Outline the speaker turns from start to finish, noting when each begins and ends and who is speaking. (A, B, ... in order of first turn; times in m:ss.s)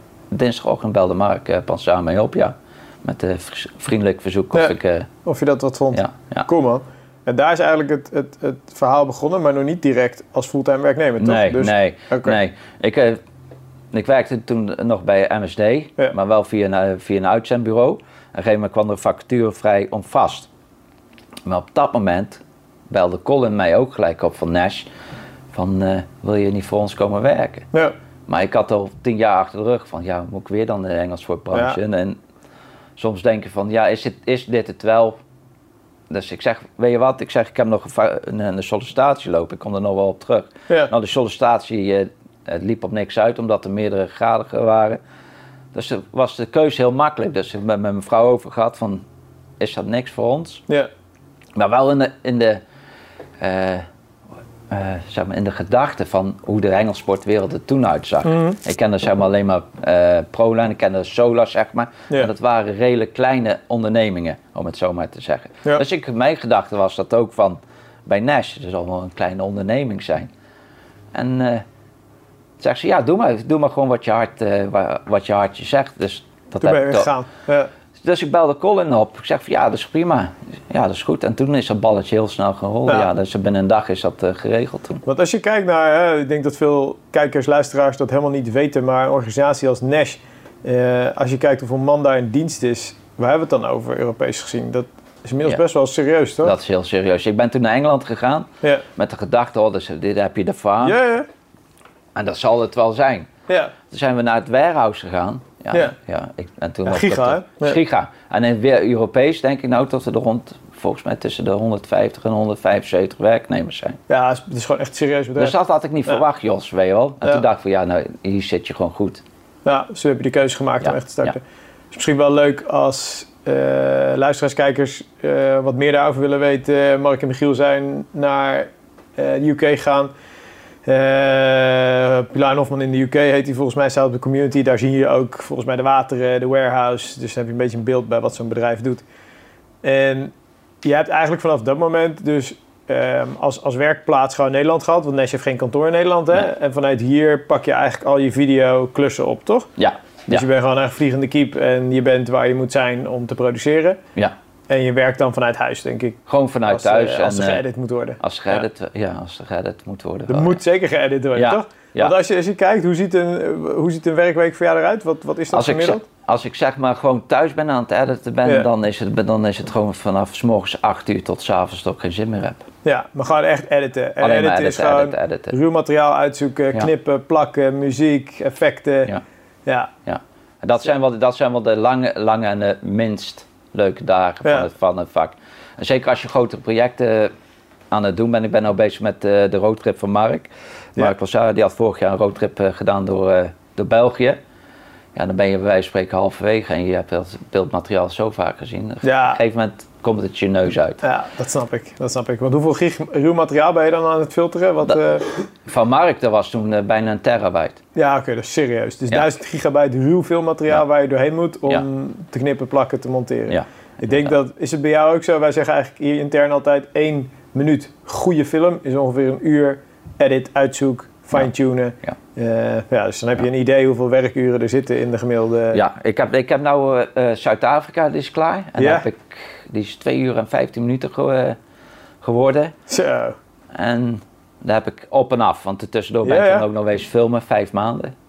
0:00.3-0:05.1 A
0:04.5-0:12.4 B
0:05.9-0:06.4 A
0:11.2-0:13.2 A
0:13.9-0:20.5 A
0:21.4-0:24.9 A
0:25.5-0:27.7 A
0:28.3-0:32.2 A
0:31.5-0:31.8 B
0:33.0-0:35.2 A
0:36.1-0:45.0 A
0:45.7-0:49.0 A
0:49.6-0:50.6 A
0:51.5-0:52.6 A
0:53.4-0:53.8 A
0:54.7-1:10.3 A
0:58.2-0:58.6 B
1:11.1-1:11.6 A
1:12.6-1:17.1 A
1:16.6-1:17.7 B
1:18.0-1:25.0 A
1:25.0-1:36.5 B
1:36.4-1:41.0 A
1:40.8-1:41.3 B
1:42.1-1:43.3 A
1:43.5-1:43.7 B
1:43.9-1:54.0 A
1:46.8-1:47.8 B
1:54.1-1:55.6 B
1:55.4-1:59.2 A
1:59.6-2:10.1 B
2:00.8-2:01.4 A
2:10.8-2:19.0 B
2:19.8-2:29.7 B
2:29.8-2:30.4 A
2:30.3-2:34.0 B
2:34.7-2:38.6 B
2:36.3-2:37.6 A
2:38.2-2:40.6 A
2:40.3-2:46.0 B
2:41.3-2:42.1 A
2:45.5-2:52.6 A
2:52.8-2:59.1 B
2:54.2-2:55.5 A
2:59.6-2:59.9 B
3:00.0-3:07.3 A
3:07.9-3:14.4 A
3:15.1-3:21.0 A
3:19.0-3:19.4 B
3:21.0-3:25.3 B
3:25.6-3:27.8 A
3:27.9-3:45.8 B
3:33.5-3:34.3 A
3:45.7-3:51.6 A
3:48.8-3:49.1 B
3:52.2-3:52.7 A
3:52.9-3:53.4 B
3:53.7-3:58.1 A
3:56.2-3:56.7 B